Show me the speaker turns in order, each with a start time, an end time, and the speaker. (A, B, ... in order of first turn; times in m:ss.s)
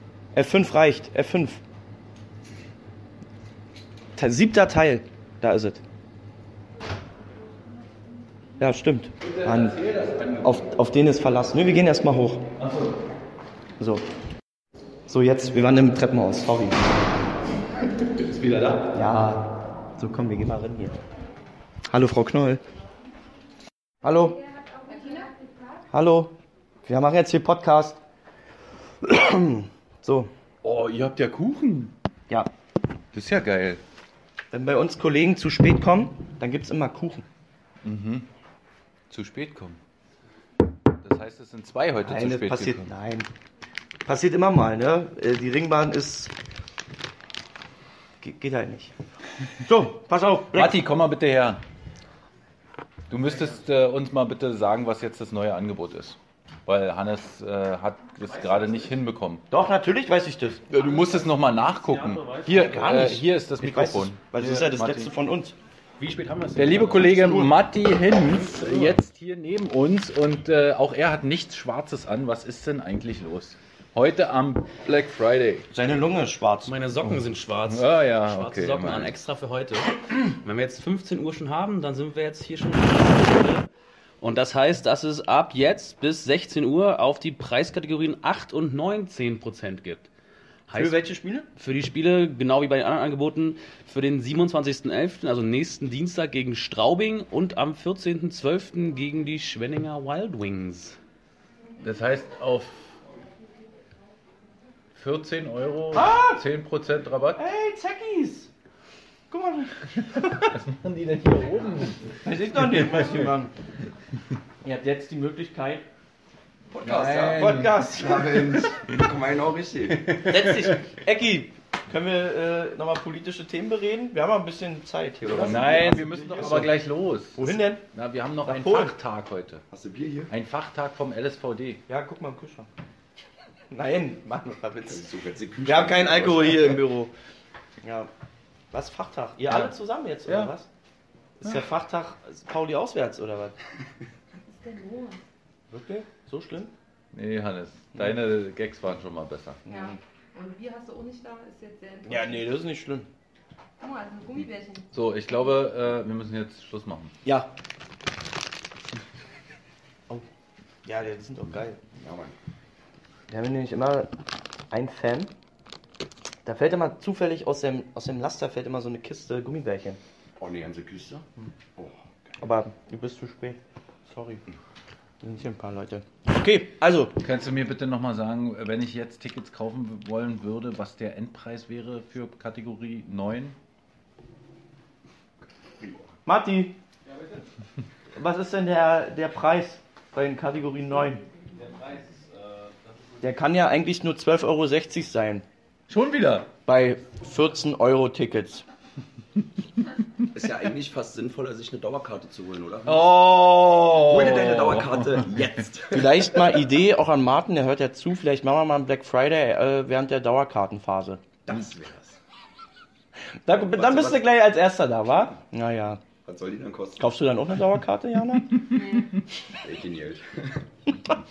0:00.4-0:01.6 A
0:04.2-0:05.8 A
0:08.6-0:09.8 A
0:09.2-0:10.6 B
0:10.4-0:12.5 A
0:12.6-0:13.0 B
0:13.8-0:14.0 A
0:15.1-0:17.1 A
0:18.1-0:18.9 B
0:18.9-0:21.0 A
0:21.9-0:22.6 A
0:24.0-0:24.4 A
0:24.9-0:25.3 C
0:25.9-0:28.0 A
0:29.0-0:30.3 A
0:30.6-0:31.9 B
0:33.1-0:33.8 B
0:34.5-0:37.2 A
0:37.8-0:38.3 B
0:39.1-0:39.8 B
0:41.0-0:42.8 B
0:42.0-0:43.3 A
0:44.1-0:46.3 A
0:48.2-0:48.9 A
0:49.6-0:50.8 A
0:50.5-0:51.6 B
0:53.1-0:59.4 B
0:58.3-0:58.9 D
0:59.5-1:00.7 A
1:00.7-1:05.1 B
1:01.7-1:02.8 D
1:02.5-1:05.6 A
1:06.0-1:07.1 D
1:06.6-1:15.7 B
1:07.0-1:07.5 A
1:08.5-1:09.0 A
1:15.7-1:17.2 A
1:16.7-1:23.7 D
1:17.7-1:19.1 B
1:24.2-1:30.1 D
1:30.7-1:31.0 D
1:30.8-1:31.5 A
1:31.6-1:41.0 D
1:41.8-1:43.0 B
1:45.0-1:47.4 B
1:45.9-1:46.4 A
1:47.4-1:48.5 A
1:49.3-1:50.5 A
1:50.2-1:53.3 B
1:52.2-1:53.5 A
1:54.6-1:55.9 A
1:56.8-2:00.2 E
1:56.8-1:58.3 A
1:56.8-1:57.9 B
2:00.1-2:00.8 B
2:00.3-2:06.7 A
2:05.3-2:06.6 E
2:05.3-2:09.6 B
2:07.4-2:07.8 A
2:08.4-2:09.0 A
2:09.7-2:10.3 E
2:10.3-2:11.8 B
2:11.9-2:12.7 A
2:13.7-2:15.0 A
2:14.9-2:16.8 E
2:15.6-2:17.1 A
2:17.8-2:18.1 A
2:18.7-2:20.7 A
2:20.3-2:20.5 B
2:21.4-2:23.6 A
2:24.5-2:25.2 C
2:25.7-2:26.7 A
2:27.1-2:29.6 B
2:29.7-2:30.0 A
2:29.7-2:32.4 C
2:32.1-2:33.1 A
2:33.8-2:35.5 C
2:34.9-2:37.1 B
2:37.2-2:37.5 A
2:40.8-2:41.8 A
2:42.0-2:42.3 E
2:43.3-2:44.2 A
2:44.7-2:45.3 A
2:46.4-2:50.0 A
2:50.4-2:51.2 E
2:52.4-2:54.4 A
2:55.2-2:57.2 A
2:57.2-3:03.6 B
3:06.2-3:06.8 A
3:08.2-3:11.2 A
3:13.2-3:15.4 A
3:15.9-3:16.5 B
3:16.7-3:18.6 A
3:20.3-3:23.2 E
3:22.9-3:25.6 B
3:23.9-3:26.5 E
3:25.9-3:31.3 A
3:31.5-3:32.2 E
3:33.5-3:36.0 A
3:33.6-3:34.2 E
3:36.2-3:37.1 E
3:37.0-3:38.8 A
3:38.8-3:39.1 C
3:39.6-3:40.2 E